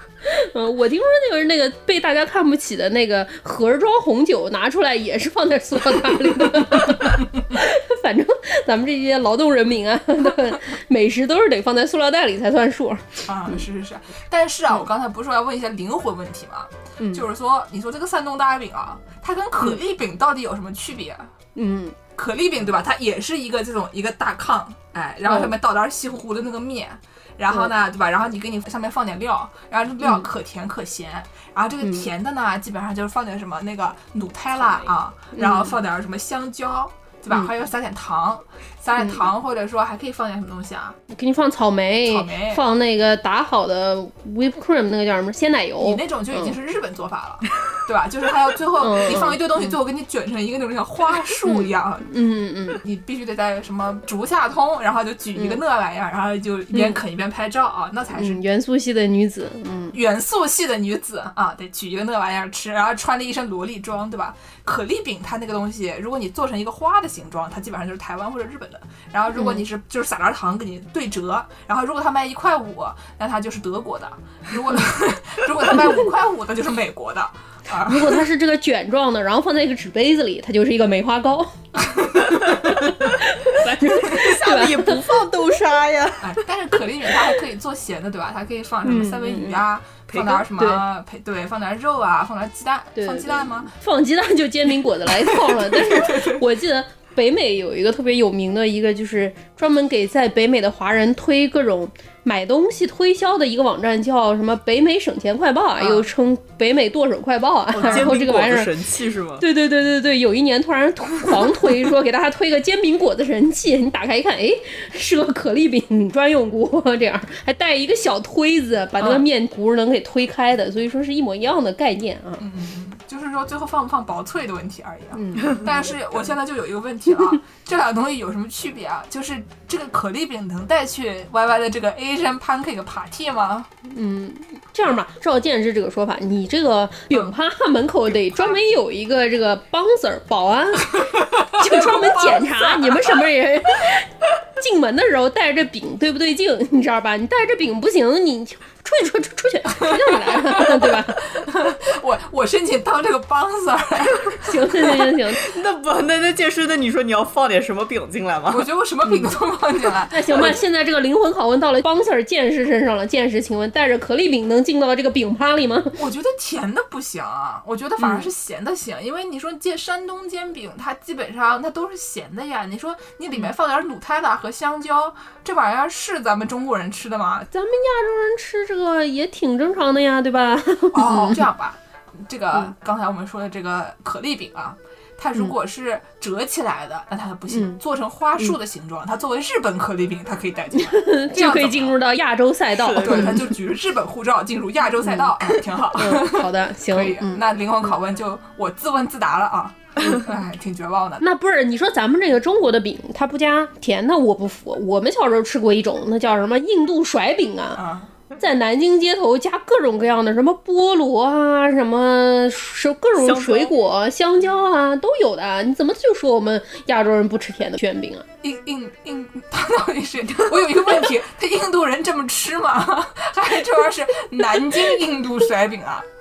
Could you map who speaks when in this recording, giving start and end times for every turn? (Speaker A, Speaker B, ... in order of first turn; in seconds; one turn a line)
Speaker A: 0.2-13.6
Speaker B: 13.2-21.3
Speaker A: 17.0-17.2
Speaker A: 21.5-21.9
Speaker B: 22.1-41.0
Speaker A: 25.3-25.5
Speaker A: 31.8-32.1
Speaker A: 35.3-35.8
Speaker A: 39.0-39.2
Speaker A: 41.1-46.5
Speaker B: 42.0-42.6
Speaker B: 45.8-52.1
Speaker A: 48.8-49.4
Speaker A: 51.4-52.8
Speaker B: 52.7-58.4
Speaker A: 56.7-57.0
Speaker A: 58.1-60.0
Speaker B: 59.9-78.2
Speaker A: 69.3-69.6
Speaker A: 77.8-81.5
Speaker A: 82.3-85.0
Speaker C: 84.0-86.4
Speaker B: 86.2-93.7
Speaker A: 88.8-89.6
Speaker C: 90.1-90.5
Speaker A: 90.2-90.8
Speaker A: 93.0-108.7
Speaker B: 95.1-96.5
Speaker B: 105.8-106.1
Speaker B: 107.7-108.1
Speaker C: 107.7-109.4
Speaker A: 109.4-122.4
Speaker B: 119.0-119.3
Speaker B: 122.4-133.7
Speaker A: 125.1-125.9
Speaker A: 133.8-151.2
Speaker B: 141.2-143.2
Speaker B: 149.8-155.0
Speaker A: 154.4-155.4
Speaker C: 155.4-158.7
Speaker B: 158.5-160.6
Speaker A: 159.1-159.3
Speaker A: 160.1-166.0
Speaker B: 166.0-177.5
Speaker A: 168.0-168.3
Speaker A: 177.5-181.4
Speaker B: 180.9-192.0
Speaker A: 187.5-187.8
Speaker A: 190.7-193.5
Speaker C: 192.7-193.4
Speaker B: 192.9-201.2
Speaker A: 195.0-197.4
Speaker A: 201.2-207.8
Speaker B: 207.8-208.1
Speaker A: 208.4-218.2
Speaker C: 213.2-213.7
Speaker B: 218.4-226.0